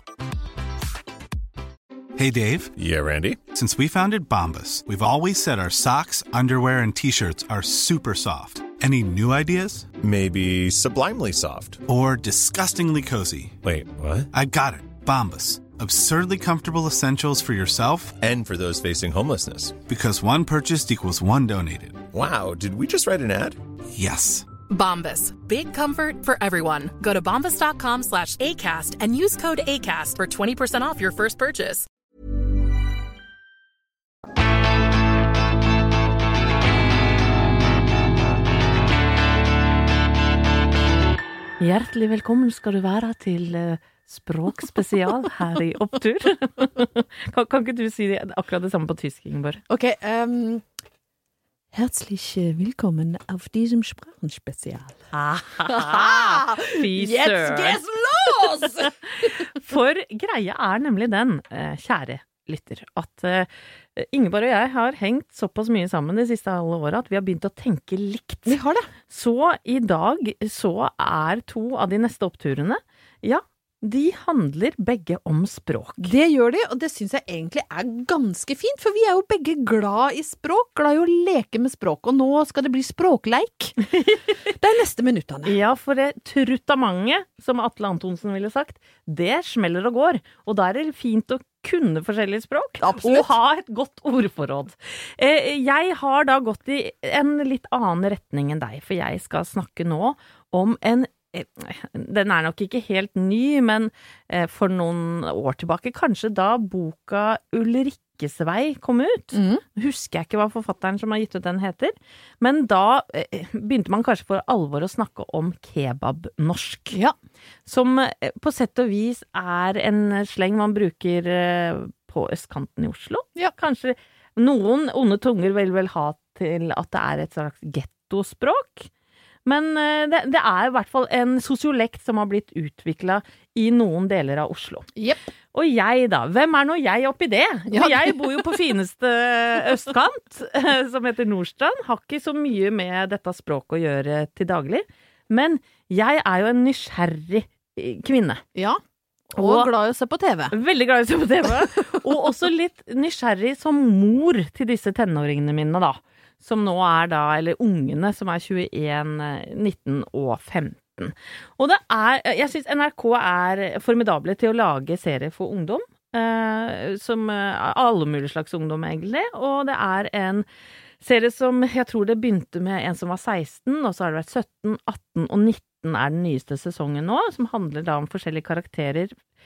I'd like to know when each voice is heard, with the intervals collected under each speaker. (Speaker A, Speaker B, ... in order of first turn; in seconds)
Speaker A: 2.2-2.7, 3.5-9.9, 11.9-13.6, 14.3-18.2, 19.8-22.0, 23.9-24.5
Speaker B: 2.8-3.5, 10.0-11.8, 13.6-14.3, 18.2-19.8, 22.1-23.6
Speaker C: 24.7-31.9
Speaker D: 41.6-49.6, 55.1-57.8, 59.2-68.6, 69.1-76.1, 85.5-117.0, 117.7-128.9, 129.4-134.9, 135.5-148.4, 149.4-149.7, 150.5-170.4, 171.0-179.2
Speaker E: 49.7-50.6, 51.7-55.0, 55.7-59.3, 68.5-68.9, 76.0-84.0, 84.5-85.6, 92.8-93.3, 109.3-109.6, 135.0-135.2, 137.7-138.6, 148.6-148.8, 149.3-150.5